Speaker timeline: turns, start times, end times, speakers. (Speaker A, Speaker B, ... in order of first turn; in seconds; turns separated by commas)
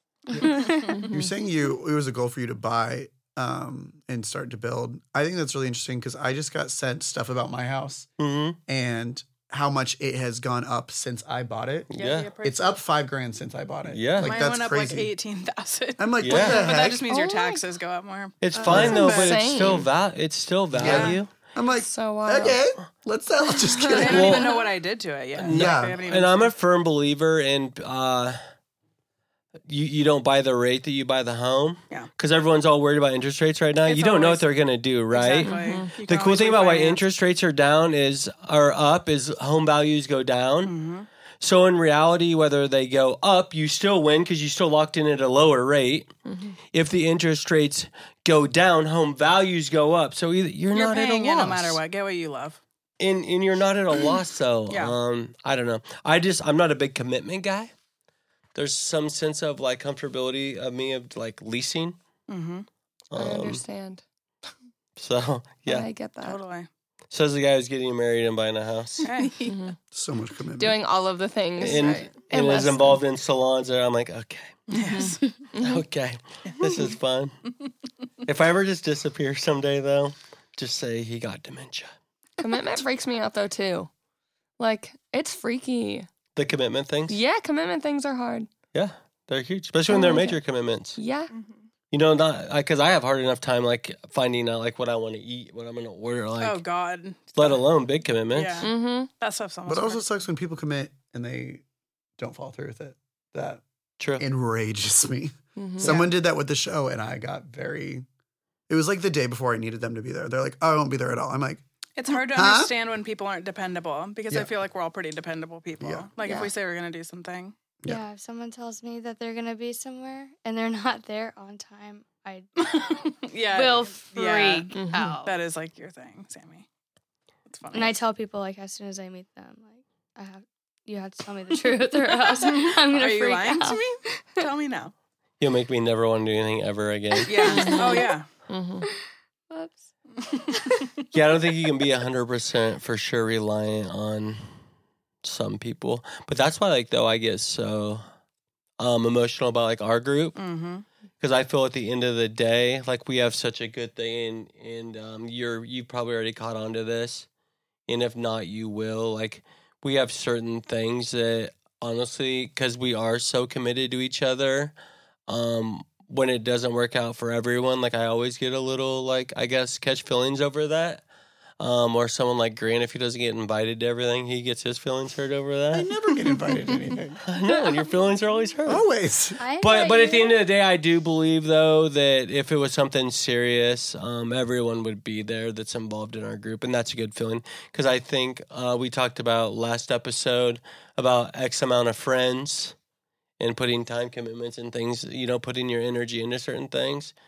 Speaker A: 0.3-1.1, Speaker B: 1.1-8.1, Speaker C: 8.2-8.6, Speaker B: 8.7-11.9, Speaker C: 11.9-12.3, Speaker D: 11.9-12.7, Speaker B: 12.4-15.1, Speaker C: 13.8-14.4, Speaker D: 14.2-19.4, Speaker B: 16.0-17.0, Speaker C: 16.2-16.8, Speaker A: 17.1-17.6, Speaker C: 18.4-21.3, Speaker E: 18.6-19.1, Speaker F: 18.6-19.9, Speaker B: 18.7-19.0, Speaker B: 20.8-24.6, Speaker D: 20.8-21.2, Speaker F: 21.8-22.6, Speaker E: 23.8-24.1, Speaker D: 23.9-26.5, Speaker C: 24.1-24.6, Speaker C: 25.4-28.4, Speaker B: 25.4-26.0, Speaker C: 29.7-40.8, Speaker D: 33.8-34.4, Speaker D: 35.1-37.0, Speaker F: 35.4-35.9, Speaker D: 40.6-41.1, Speaker C: 41.4-46.1, Speaker F: 46.2-46.5, Speaker C: 46.7-51.8, Speaker D: 50.7-52.6, Speaker C: 53.0-57.7, Speaker D: 54.7-55.0, Speaker C: 58.5-62.0, Speaker D: 62.3-62.7, Speaker C: 63.1-63.6, Speaker F: 63.1-64.0, Speaker C: 65.0-65.9, Speaker F: 65.7-66.4, Speaker D: 66.2-66.7, Speaker C: 67.1-69.1, Speaker D: 69.0-69.5, Speaker F: 69.4-69.8, Speaker B: 69.9-70.8, Speaker F: 70.6-73.0, Speaker C: 71.6-74.8, Speaker E: 71.6-72.1, Speaker D: 74.7-75.2, Speaker F: 74.7-75.8, Speaker C: 75.6-77.3, Speaker D: 76.5-76.9, Speaker C: 78.2-81.9, Speaker F: 82.4-83.9, Speaker F: 84.6-86.1, Speaker C: 86.3-87.2, Speaker F: 87.1-88.5, Speaker C: 88.7-91.0, Speaker F: 89.9-90.4, Speaker F: 91.0-91.3, Speaker E: 91.3-91.7, Speaker C: 91.9-96.6, Speaker D: 96.4-97.6, Speaker C: 97.3-98.7, Speaker D: 98.3-100.0, Speaker F: 98.6-99.1, Speaker B: 99.7-101.6, Speaker B: 102.2-103.6, Speaker C: 104.0-104.2, Speaker B: 104.2-108.0, Speaker F: 105.5-106.0, Speaker D: 105.8-106.1, Speaker B: 108.7-111.6, Speaker D: 112.0-117.5, Speaker B: 112.1-112.7, Speaker B: 115.8-116.1, Speaker F: 116.2-116.5, Speaker A: 117.8-125.4, Speaker D: 122.6-126.7, Speaker F: 124.8-125.2, Speaker D: 127.5-128.0, Speaker A: 127.7-134.5, Speaker D: 132.1-134.9, Speaker C: 135.4-137.7, Speaker D: 137.2-138.3, Speaker F: 137.5-138.8, Speaker A: 137.6-138.1, Speaker A: 139.5-139.8, Speaker D: 140.2-140.6, Speaker A: 140.5-140.8, Speaker C: 141.1-144.5, Speaker C: 145.2-148.0, Speaker C: 148.8-150.4, Speaker D: 150.3-150.8, Speaker C: 151.2-157.3, Speaker C: 157.9-164.7, Speaker C: 165.3-171.0, Speaker C: 171.6-175.9, Speaker B: 175.7-177.2, Speaker C: 177.2-178.8, Speaker B: 178.7-179.4, Speaker A: 179.4-180.4, Speaker C: 179.6-192.8, Speaker C: 193.4-197.1